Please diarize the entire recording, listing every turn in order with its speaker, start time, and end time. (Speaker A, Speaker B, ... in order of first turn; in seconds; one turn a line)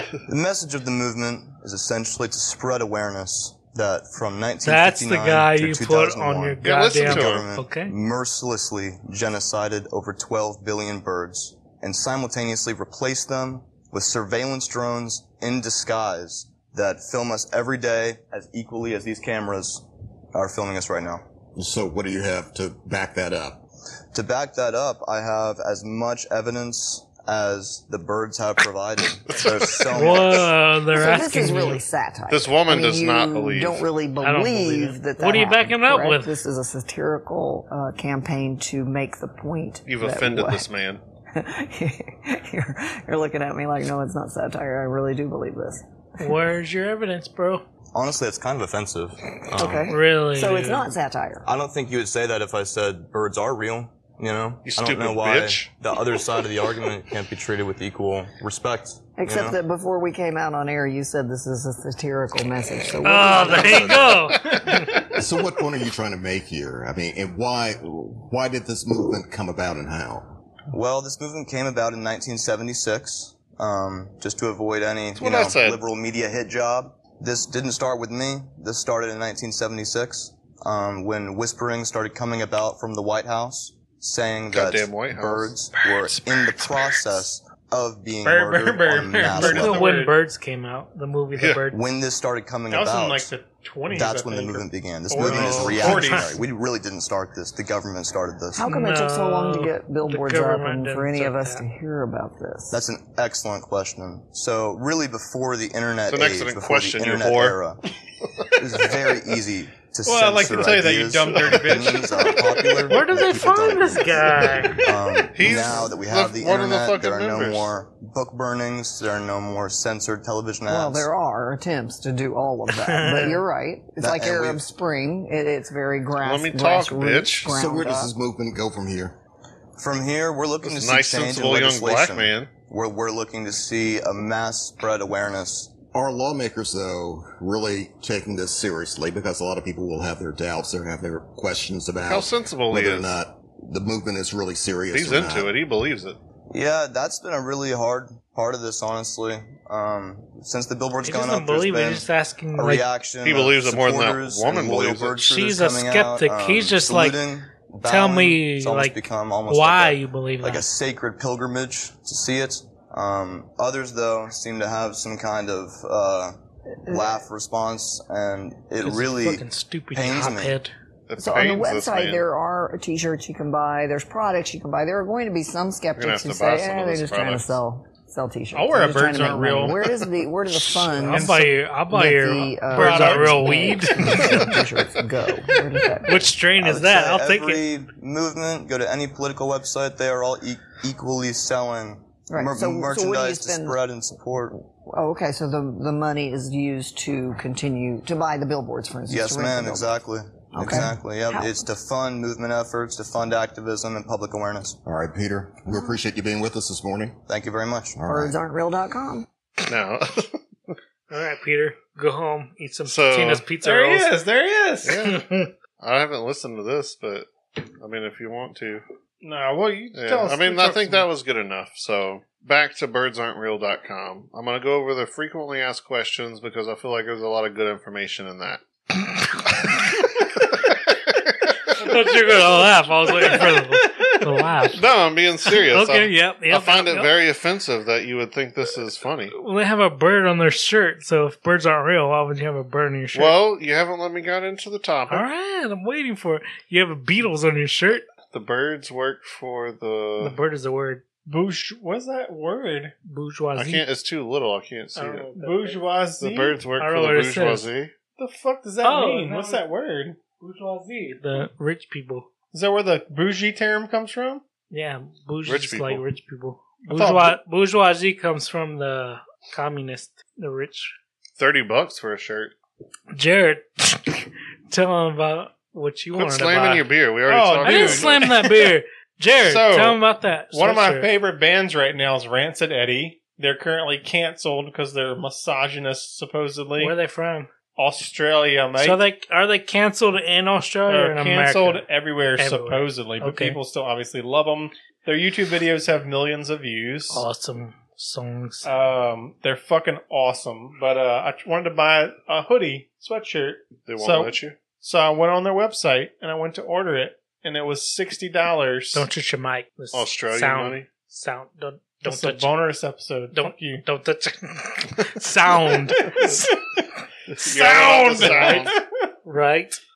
Speaker A: 0.3-21.2
Speaker B: 4.6-7.9
Speaker C: 6.6-7.5
Speaker D: 21.6-23.6
Speaker A: 24.1-30.5
Speaker C: 29.3-30.4
Speaker B: 29.9-31.8
Speaker E: 30.9-40.6
Speaker C: 32.3-33.9
Speaker B: 34.2-36.3
Speaker C: 39.9-41.0
Speaker E: 41.3-45.8
Speaker B: 46.2-47.6
Speaker A: 47.9-49.9
Speaker E: 49.5-51.5
Speaker B: 49.9-50.9
Speaker A: 51.4-59.6
Speaker C: 54.6-55.7
Speaker E: 59.2-64.2
Speaker B: 63.0-64.4
Speaker C: 63.5-64.6
Speaker D: 64.8-70.3
Speaker A: 70.7-89.9
Speaker C: 75.2-75.8
Speaker C: 84.5-85.5
Speaker F: 85.7-87.2
Speaker F: 88.2-90.1
Speaker B: 89.3-91.8
Speaker A: 91.7-93.3
Speaker F: 92.7-96.4
Speaker A: 93.9-98.7
Speaker B: 95.1-96.4
Speaker E: 98.5-102.8
Speaker B: 98.6-101.6
Speaker A: 102.7-107.8
Speaker C: 106.1-107.6
Speaker A: 108.5-121.1
Speaker F: 110.0-112.5
Speaker C: 111.3-112.8
Speaker B: 112.9-114.8
Speaker C: 115.3-117.7
Speaker E: 120.7-128.1
Speaker B: 122.8-123.4
Speaker A: 124.0-124.6
Speaker C: 126.2-127.5
Speaker D: 127.5-129.1
Speaker A: 129.8-135.7
Speaker C: 130.6-132.5
Speaker D: 135.9-145.5
Speaker C: 142.1-143.2
Speaker C: 144.9-146.2
Speaker A: 146.5-170.6
Speaker B: 151.0-152.9
Speaker C: 153.2-155.2
Speaker B: 155.2-157.2
Speaker B: 157.8-160.6
Speaker E: 166.8-167.2
Speaker B: 168.8-170.7
Speaker C: 171.1-172.2
Speaker E: 171.2-186.3
Speaker C: 175.9-177.5
Speaker F: 178.5-179.8
Speaker F: 181.0-181.5
Speaker B: 181.0-184.5
Speaker F: 182.7-183.8
Speaker B: 186.0-187.6
Speaker A: 186.6-194.6
Speaker E: 192.3-193.8
Speaker E: 194.8-199.9
Speaker A: 199.1-204.8
Speaker E: 200.5-201.6
Speaker D: 204.8-207.2
Speaker A: 207.3-208.1
Speaker D: 208.0-208.3
Speaker E: 208.1-209.3
Speaker C: 209.6-210.4
Speaker B: 211.1-214.1
Speaker C: 212.8-213.4
Speaker F: 213.6-215.0
Speaker C: 214.8-215.2
Speaker B: 214.9-215.5
Speaker C: 215.8-218.8
Speaker F: 219.2-221.1
Speaker C: 219.9-228.6
Speaker C: 230.4-230.7
Speaker C: 231.2-231.7
Speaker B: 231.8-234.8
Speaker F: 233.1-234.7
Speaker C: 234.7-239.3
Speaker B: 235.4-237.1
Speaker B: 239.3-243.3
Speaker C: 243.1-245.2
Speaker B: 245.1-248.1
Speaker C: 248.3-250.4
Speaker B: 250.2-251.0
Speaker F: 251.3-252.9
Speaker B: 253.1-253.8
Speaker C: 253.6-255.3
Speaker B: 254.9-255.8
Speaker F: 255.3-256.6
Speaker C: 256.2-257.9
Speaker B: 256.8-257.7
Speaker F: 258.1-260.2
Speaker B: 258.8-259.6
Speaker B: 260.4-262.3
Speaker F: 262.5-264.4
Speaker B: 264.7-270.9
Speaker C: 265.4-266.0
Speaker F: 266.8-267.4
Speaker C: 271.4-272.5
Speaker B: 273.1-276.9
Speaker C: 276.1-278.3
Speaker F: 277.3-278.7
Speaker B: 277.6-281.1
Speaker F: 279.4-280.0
Speaker F: 280.5-286.9
Speaker B: 286.8-287.5
Speaker F: 287.8-289.0
Speaker B: 288.8-291.8
Speaker F: 290.9-297.2
Speaker B: 292.4-293.6
Speaker B: 297.1-298.7
Speaker F: 298.6-309.1
Speaker C: 303.8-304.6
Speaker B: 308.9-312.5
Speaker C: 309.9-310.9
Speaker F: 312.0-313.8
Speaker B: 313.3-316.6
Speaker F: 316.0-316.4
Speaker C: 317.3-318.7
Speaker F: 317.4-319.1
Speaker B: 318.1-318.7
Speaker B: 319.2-319.8